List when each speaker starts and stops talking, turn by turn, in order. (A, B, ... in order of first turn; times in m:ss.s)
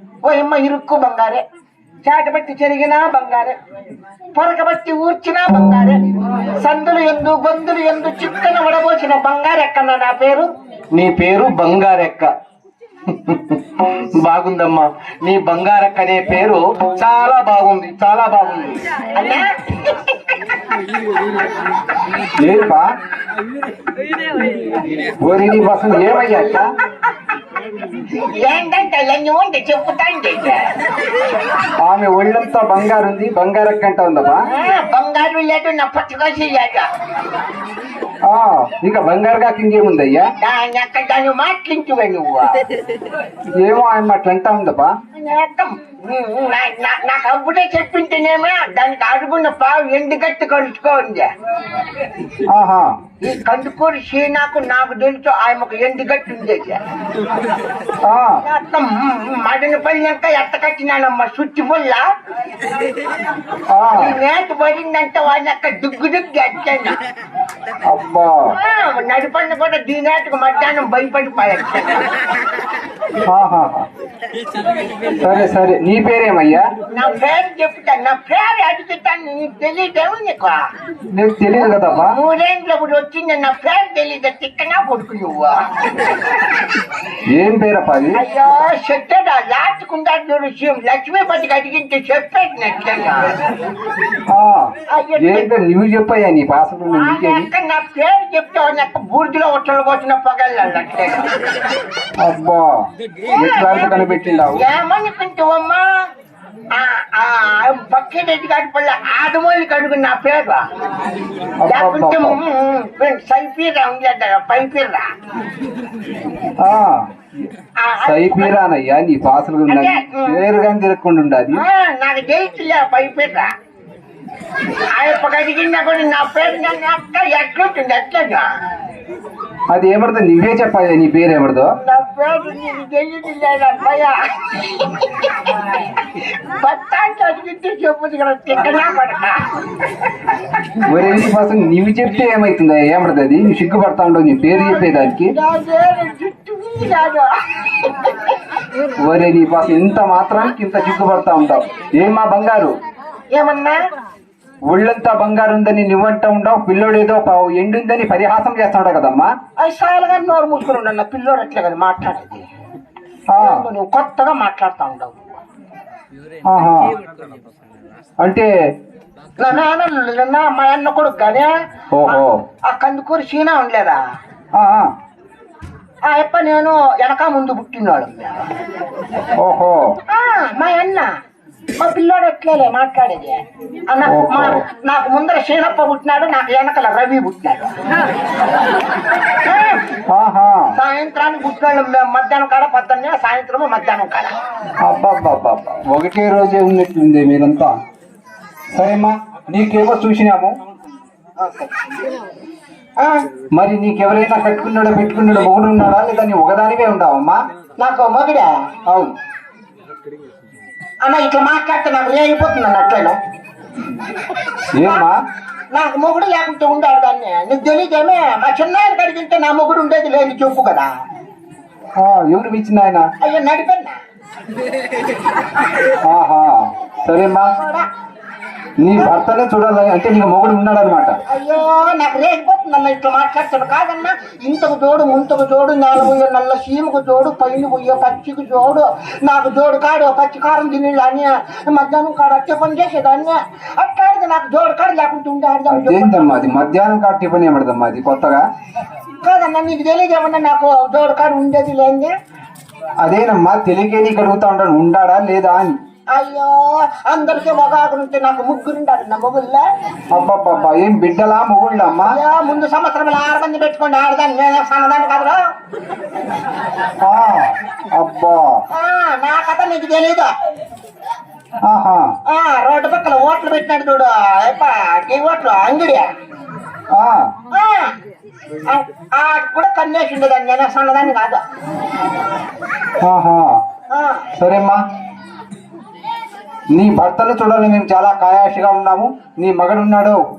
0:00.2-0:01.4 A
0:02.0-0:03.5 A
0:04.3-0:06.0 A
0:06.6-0:10.4 A
0:10.9-0:12.3 B
0:13.1-0:18.8 B
0:19.1-0:20.4 A
0:22.4-0:22.9 C
0:25.2-0:26.7 C
0:28.1-0:30.7 A
0:31.8-0:34.4 C
0:34.5-0:36.9 A
0:38.2-0:40.3 C
0:40.4-0:42.6 A
0:43.6-0:44.9 C
0:45.1-0:51.3 A
0:52.5-0:52.9 C
0:53.2-0:56.8 A
0:58.0-0:58.4 C
0:58.4-1:02.0 A
1:03.7-1:04.2 C
1:03.9-1:07.0 A
1:07.9-1:08.5 C
1:08.6-1:12.1 A
1:13.2-1:13.9 C
1:15.2-1:16.7 C
1:16.9-1:20.6 A
1:21.1-1:22.1 C
1:21.5-1:26.1 A
1:27.3-1:28.2 C
1:28.1-1:33.3 A
1:34.3-1:37.5 C
1:34.9-1:35.5 A
1:36.9-1:41.4 A
1:42.2-1:42.8 C
1:43.4-1:44.6 C
1:43.4-1:43.7 A
1:44.5-1:45.8 A
1:46.7-1:50.6 A
1:51.6-1:52.4 C
1:51.7-1:55.1 A
1:56.6-1:57.1 C
1:57.8-1:58.5 A
1:58.0-2:01.6 C
1:59.7-2:00.4 A
2:01.5-2:03.5 A
2:04.9-2:08.4 A
2:09.7-2:11.7 C
2:11.8-2:19.8 A
2:20.9-2:25.3 C
2:24.6-2:28.3 A
2:29.0-2:32.7 C
2:33.3-2:33.8 A
2:34.7-2:39.3 C
2:39.6-2:42.4 A
2:43.3-2:43.6 C
2:43.4-2:45.4 A
2:46.5-2:46.9 C
2:48.2-2:48.5 C
2:49.4-2:51.5 A
2:51.9-2:52.4 C
2:52.0-2:54.0 A
2:54.5-2:54.9 C
2:56.0-2:58.4 A
2:59.4-2:59.9 C
3:00.1-3:01.1 A
3:01.8-3:07.7 A
3:04.0-3:04.6 C
3:09.4-3:09.8 A
3:10.1-3:10.7 C
3:10.8-3:14.3 A
3:14.8-3:17.8 C
3:18.7-3:20.6 C
3:21.4-3:21.7 B
3:23.5-3:27.4 C
3:27.8-3:28.5 A
3:31.0-3:33.2 A
3:34.7-3:35.2 C
3:35.7-3:40.9 A
3:42.0-3:43.1 C
3:43.2-3:44.0 A
3:46.1-3:47.5 C
3:47.6-3:47.8 A
3:48.8-3:51.2 C
3:51.3-4:06.4 A
4:05.7-4:08.4 C
4:09.2-4:12.1 A
4:13.0-4:15.8 C
4:16.1-4:19.6 A
4:20.1-4:22.2 C
4:22.0-4:25.4 A
4:27.0-4:28.6 C
4:28.7-4:30.3 A
4:31.6-4:32.1 C
4:32.3-4:36.1 A
4:36.9-4:37.3 C
4:37.5-4:37.9 A
4:38.7-4:41.4 A
4:43.0-4:43.6 C
4:43.9-4:44.3 A
4:44.4-4:44.8 C
4:46.7-4:50.2 C